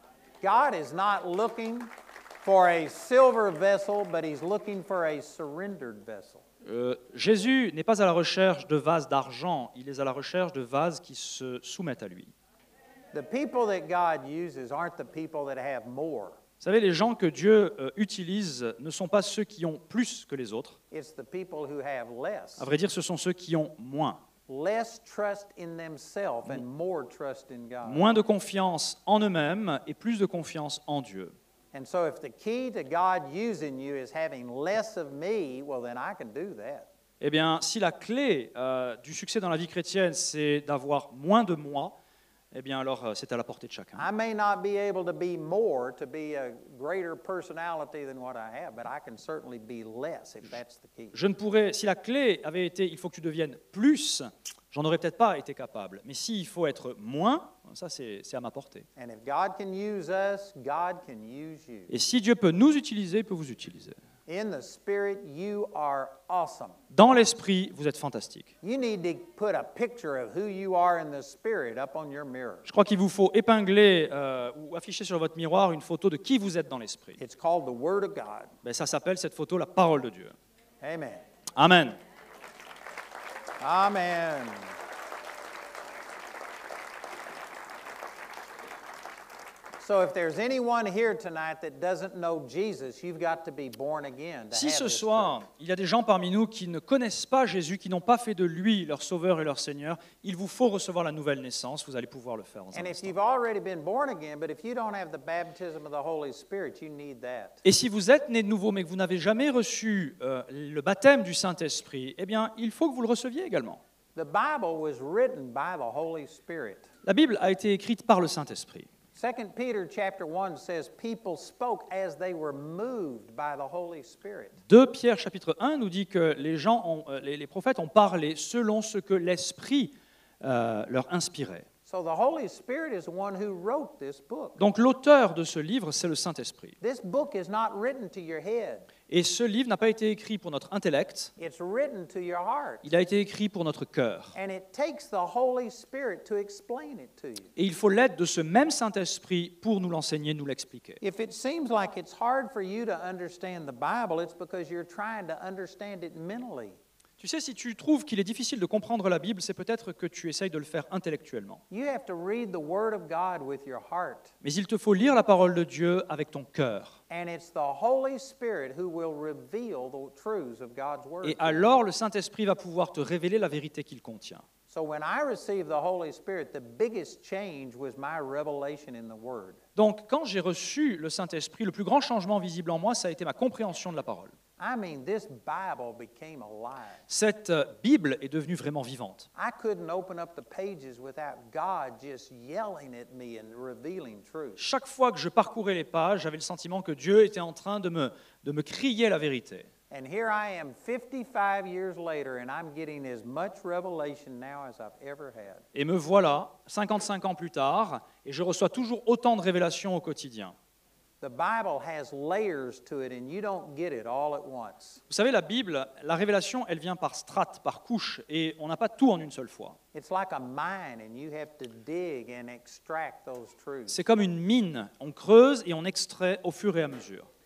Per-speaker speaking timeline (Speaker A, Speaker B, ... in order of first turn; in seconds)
Speaker A: 0.4-1.9, 2.4-6.4, 13.1-16.4, 20.9-22.7, 24.5-28.1, 31.7-36.9, 44.0-51.2, 59.0-61.9, 64.3-66.8, 68.6-72.7, 77.2-78.5, 80.8-81.2, 83.6-84.7, 89.8-95.4, 102.7-107.6, 114.1-116.9, 119.2-124.6, 131.8-134.6, 136.8-138.9, 141.4-142.8, 144.3-147.5, 151.0-156.8, 161.7-164.3, 167.1-171.7, 174.7-179.6, 184.6-187.0, 189.3-194.6, 199.9-205.6, 211.2-215.0, 219.9-224.0
Speaker B: 6.6-12.3, 16.6-20.8, 22.6-24.2, 27.8-31.3, 37.2-42.0, 42.5-44.1, 51.1-58.9, 61.9-64.0, 66.9-68.5, 72.7-77.2, 78.6-80.3, 81.5-82.0, 94.5-103.1, 107.6-113.8, 117.0-118.9, 124.7-131.7, 134.6-136.8, 139.1-141.3, 142.8-144.3, 147.6-151.0, 157.2-161.6, 164.4-167.0, 171.2-174.4, 179.8-184.3, 187.1-189.3, 194.6-199.7, 205.7-210.5, 215.1-219.8, 223.9-227.3